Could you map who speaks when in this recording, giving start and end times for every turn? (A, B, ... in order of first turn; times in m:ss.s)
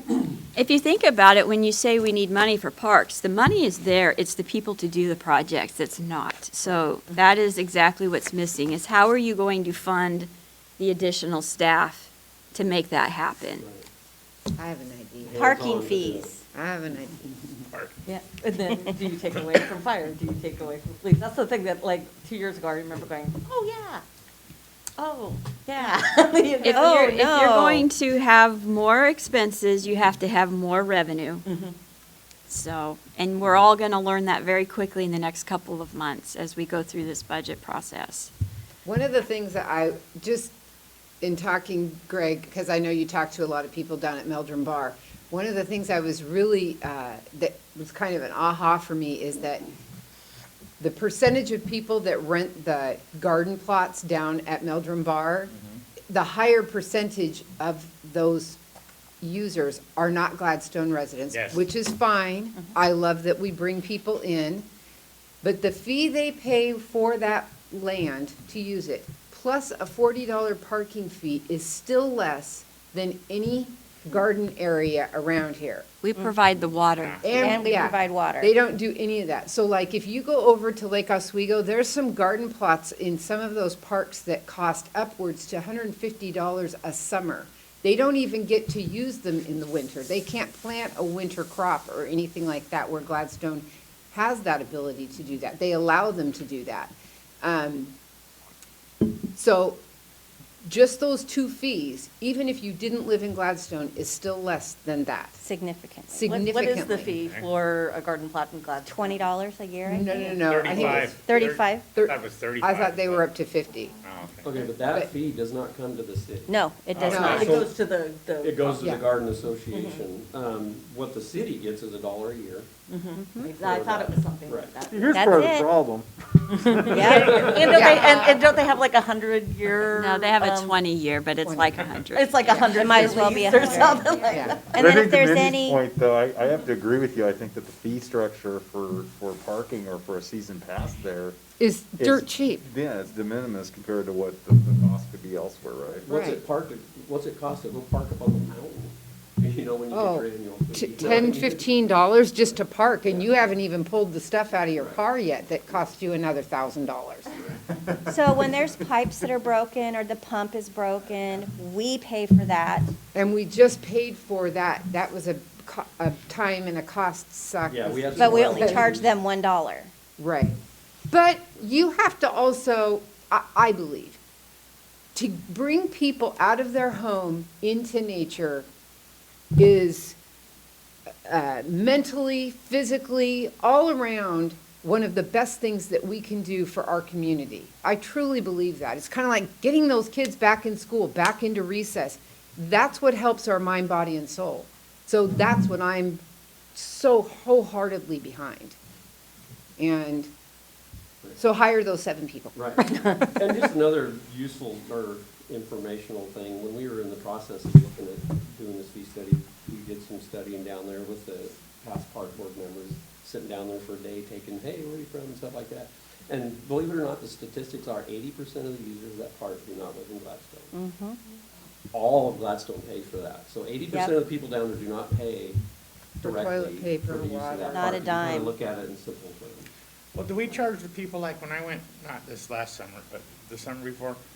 0:00.5-0:13.6 A
0:13.6-0:13.8 B
0:14.6-0:15.5 C
0:15.2-0:16.3 B
0:15.3-0:16.4 D
0:16.5-0:17.3 C
0:17.7-0:18.0 E
0:18.0-0:24.0 F
0:19.3-0:19.6 E
0:25.0-0:27.2 F
0:26.6-0:31.4 A
0:26.6-0:27.9 D
0:31.5-0:31.7 F
0:32.5-0:38.3 A
0:38.8-0:40.5 C
0:41.2-0:49.7 C
0:50.8-0:55.5 C
0:55.5-0:55.8 E
0:56.1-0:58.6 C
0:59.2-1:04.7 C
1:01.3-1:01.6 E
1:05.4-1:15.9 C
1:16.0-1:17.2 A
1:17.0-1:17.4 E
1:17.2-1:38.0 C
1:17.3-1:18.5 D
1:39.3-1:39.8 C
1:40.6-1:45.4 C
1:45.4-1:46.2 D
1:46.1-1:47.2 C
1:46.2-1:49.2 F
1:47.2-1:47.5 E
1:48.8-1:51.9 D
1:49.9-1:53.9 C
1:50.4-1:53.3 E
1:54.0-1:54.7 E
1:54.4-1:57.8 B
1:56.5-1:57.6 D
1:56.9-1:57.5 E
1:57.0-1:57.5 C
1:57.2-1:58.9 F
1:58.4-2:02.7 B
1:59.7-2:00.0 F
2:02.9-2:05.2 F
2:03.2-2:03.6 D
2:03.6-2:04.8 B
2:04.9-2:06.1 G
2:05.1-2:05.7 D
2:06.5-2:10.8 F
2:06.6-2:07.2 G
2:06.8-2:08.2 D
2:07.1-2:07.9 B
2:07.7-2:08.4 C
2:09.9-2:14.0 A
2:11.4-2:11.9 C
2:12.1-2:14.7 F
2:12.5-2:15.8 D
2:14.3-2:14.6 C
2:14.7-2:21.4 G
2:21.6-2:22.6 C
2:22.0-2:26.1 G
2:26.0-2:33.4 B
2:26.1-2:26.4 C
2:29.9-2:37.3 C
2:37.3-2:38.5 B
2:38.1-2:42.9 D
2:43.1-2:48.9 C
2:47.7-2:49.1 B
2:48.2-2:49.9 D
2:50.2-2:50.6 C
2:51.1-2:54.2 C
2:55.1-2:58.7 C
2:59.6-3:00.2 C
3:01.2-3:16.2 C
3:16.7-3:18.8 C
3:19.8-3:20.3 C
3:21.4-3:22.5 C
3:22.5-3:22.8 B
3:22.8-3:23.2 D
3:23.3-3:40.7 B
3:40.7-3:41.2 D
3:41.9-3:45.6 B
3:46.2-3:48.1 C
3:46.2-3:49.7 B
3:47.7-3:48.5 D
3:50.1-3:54.2 E